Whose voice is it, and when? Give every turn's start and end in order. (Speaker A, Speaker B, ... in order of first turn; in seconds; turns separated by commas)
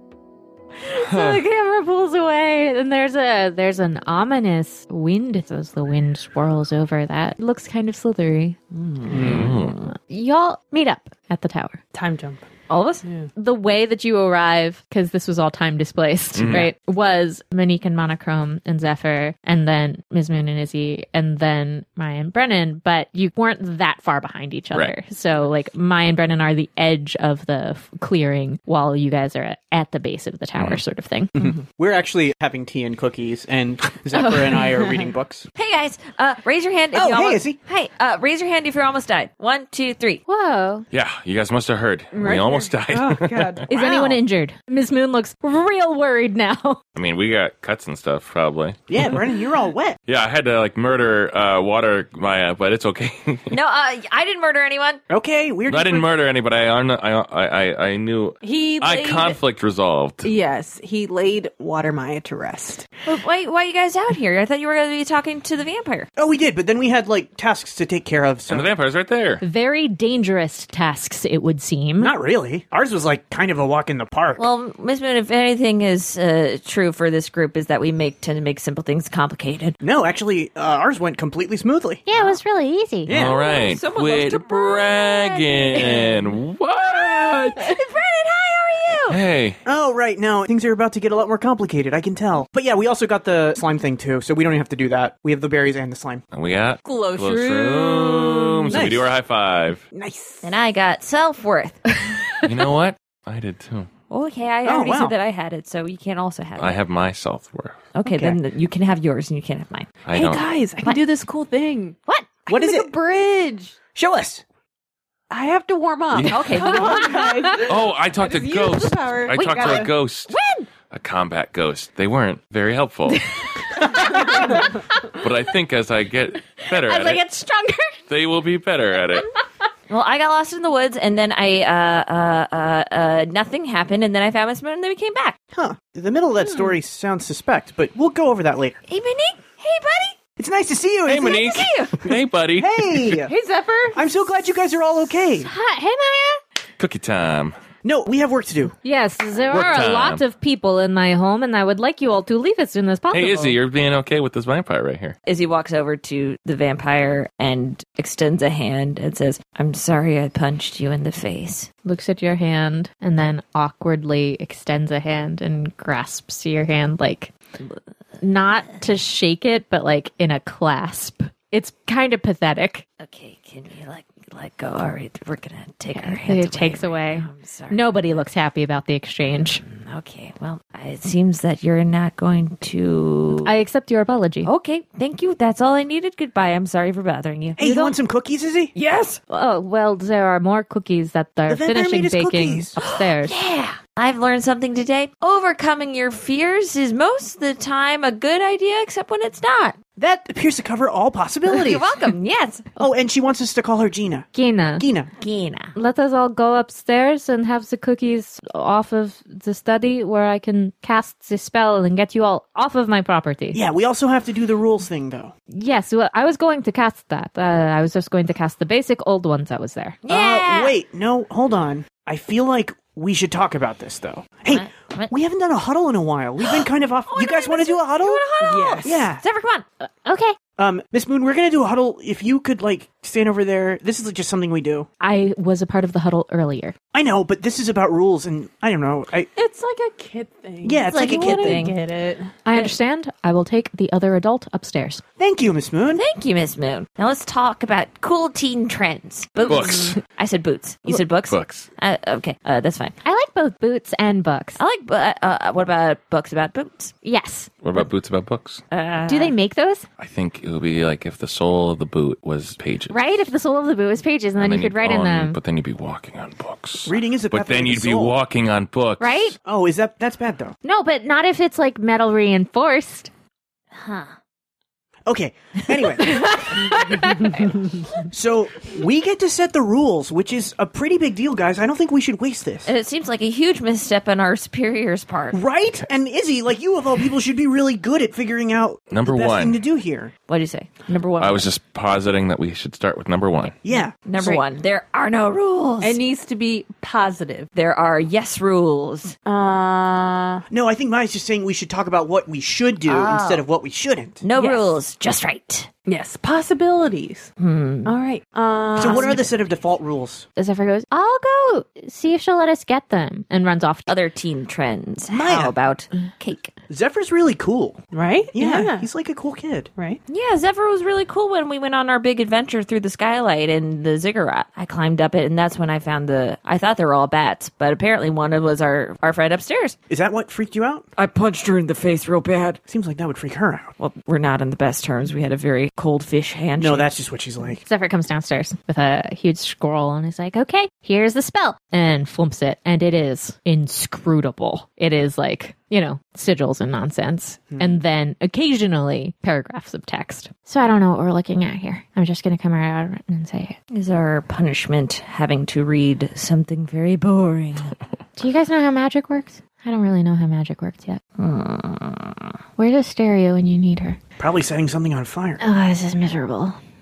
Speaker A: 0.8-8.6, Speaker B: 1.1-1.4, Speaker B: 9.1-9.8, Speaker C: 9.1-9.5, Speaker A: 9.2-11.8, Speaker D: 11.9-12.4, Speaker E: 12.7-13.0, Speaker A: 13.3-31.4, Speaker B: 16.3-16.7, Speaker C: 31.4-35.5, Speaker E: 35.5-40.2, Speaker C: 36.9-37.6, Speaker A: 40.3-40.9, Speaker B: 40.9-43.6, Speaker D: 42.1-44.2, Speaker A: 43.7-46.8, Speaker C: 43.8-44.1, Speaker B: 47.0-49.2, Speaker C: 48.9-50.0, Speaker B: 50.1-53.5, Speaker E: 53.5-55.0, Speaker C: 55.1-56.1, Speaker B: 55.7-60.3, Speaker D: 58.4-59.4, Speaker D: 60.2-62.9, Speaker E: 63.1-66.1, Speaker C: 66.2-68.7, Speaker B: 68.5-69.4, Speaker A: 69.4-72.1, Speaker C: 72.0-74.5, Speaker E: 74.4-79.8, Speaker C: 79.8-82.0, Speaker A: 82.1-83.1, Speaker C: 83.1-83.4, Speaker B: 83.1-87.7, Speaker E: 83.3-86.3, Speaker E: 86.8-89.2, Speaker B: 89.1-89.6, Speaker C: 89.7-96.2, Speaker B: 96.3-99.8, Speaker D: 96.8-98.9, Speaker C: 98.7-99.1, Speaker D: 100.0-100.4, Speaker E: 100.4-102.1, Speaker B: 102.4-103.9, Speaker E: 104.1-106.8, Speaker C: 104.7-105.2, Speaker B: 106.6-107.8, Speaker E: 107.9-110.0, Speaker C: 108.1-108.4, Speaker B: 110.1-110.5, Speaker D: 110.1-113.8, Speaker C: 112.5-112.9, Speaker C: 114.0-114.4, Speaker D: 115.3-119.9, Speaker B: 116.1-117.0, Speaker A: 116.2-117.7, Speaker E: 116.3-117.0, Speaker B: 117.7-120.3, Speaker E: 119.4-119.9, Speaker B: 120.9-123.3, Speaker A: 123.5-124.8, Speaker B: 124.0-127.2, Speaker A: 126.6-128.0, Speaker B: 128.1-129.3, Speaker E: 129.9-135.4, Speaker C: 135.5-138.8, Speaker E: 138.9-140.2, Speaker C: 140.4-141.6, Speaker B: 141.1-143.2, Speaker E: 141.1-142.1, Speaker C: 142.6-143.3, Speaker D: 143.2-144.1, Speaker C: 143.9-145.5, Speaker A: 145.4-146.4, Speaker B: 146.8-147.6, Speaker C: 147.8-148.8, Speaker A: 148.8-153.6, Speaker B: 149.5-150.2, Speaker B: 153.1-155.2, Speaker E: 155.3-161.7, Speaker A: 161.8-167.3, Speaker A: 168.2-172.8, Speaker E: 173.0-178.2, Speaker A: 175.9-179.6, Speaker E: 179.6-183.5, Speaker A: 183.4-184.5, Speaker E: 184.4-188.0, Speaker C: 187.6-188.7, Speaker E: 188.8-189.2, Speaker A: 189.3-193.4, Speaker C: 191.5-192.7, Speaker E: 192.8-199.8, Speaker C: 200.0-202.0, Speaker E: 201.5-202.7, Speaker C: 202.8-205.1, Speaker A: 204.3-204.9, Speaker E: 205.2-205.8, Speaker A: 205.8-213.6, Speaker C: 213.5-215.3, Speaker A: 215.5-220.0, Speaker E: 220.0-220.8, Speaker C: 220.1-228.3, Speaker E: 224.5-225.1, Speaker E: 226.4-229.7, Speaker D: 228.4-229.1, Speaker C: 228.8-229.2, Speaker A: 229.8-230.4, Speaker C: 230.6-234.9, Speaker A: 235.0-236.8, Speaker C: 236.9-239.3, Speaker D: 239.3-242.3, Speaker C: 240.6-241.7, Speaker E: 240.9-241.8, Speaker A: 242.5-245.0, Speaker C: 245.2-246.0, Speaker E: 245.9-253.0, Speaker D: 249.4-250.0, Speaker B: 249.5-250.0, Speaker B: 250.9-251.7, Speaker A: 253.0-254.6, Speaker E: 254.6-256.9, Speaker A: 257.0-257.5, Speaker B: 257.6-258.6, Speaker E: 258.7-259.4, Speaker A: 259.1-259.9, Speaker B: 260.0-263.0, Speaker A: 262.9-265.4, Speaker B: 264.4-269.4, Speaker C: 266.9-268.2, Speaker A: 269.0-269.4, Speaker C: 269.4-270.6, Speaker A: 270.6-273.1, Speaker E: 273.8-274.1, Speaker C: 275.1-277.3, Speaker C: 277.9-282.7, Speaker E: 282.6-285.4, Speaker C: 285.3-290.1, Speaker B: 288.9-289.6, Speaker E: 290.3-291.5, Speaker B: 291.2-293.5, Speaker E: 293.4-296.0, Speaker C: 293.6-294.4, Speaker D: 295.8-297.5, Speaker E: 297.5-299.2, Speaker D: 299.2-300.4, Speaker C: 300.5-304.2, Speaker E: 302.9-303.4, Speaker E: 304.2-305.7, Speaker D: 304.4-304.8, Speaker D: 305.9-307.3, Speaker E: 307.4-308.0, Speaker D: 307.9-309.2, Speaker C: 308.8-310.3, Speaker E: 308.8-309.2, Speaker A: 310.4-313.9, Speaker E: 313.9-316.5, Speaker C: 315.1-315.5, Speaker C: 316.7-319.7, Speaker D: 317.9-318.9, Speaker E: 320.1-329.8, Speaker C: 329.9-330.9, Speaker E: 331.0-332.6, Speaker C: 332.7-333.7, Speaker E: 333.8-336.9, Speaker C: 336.6-337.6, Speaker A: 337.6-353.6, Speaker E: 353.7-357.8, Speaker A: 358.2-361.0, Speaker E: 361.2-362.3, Speaker A: 362.6-364.0, Speaker C: 364.2-365.4, Speaker A: 365.4-366.6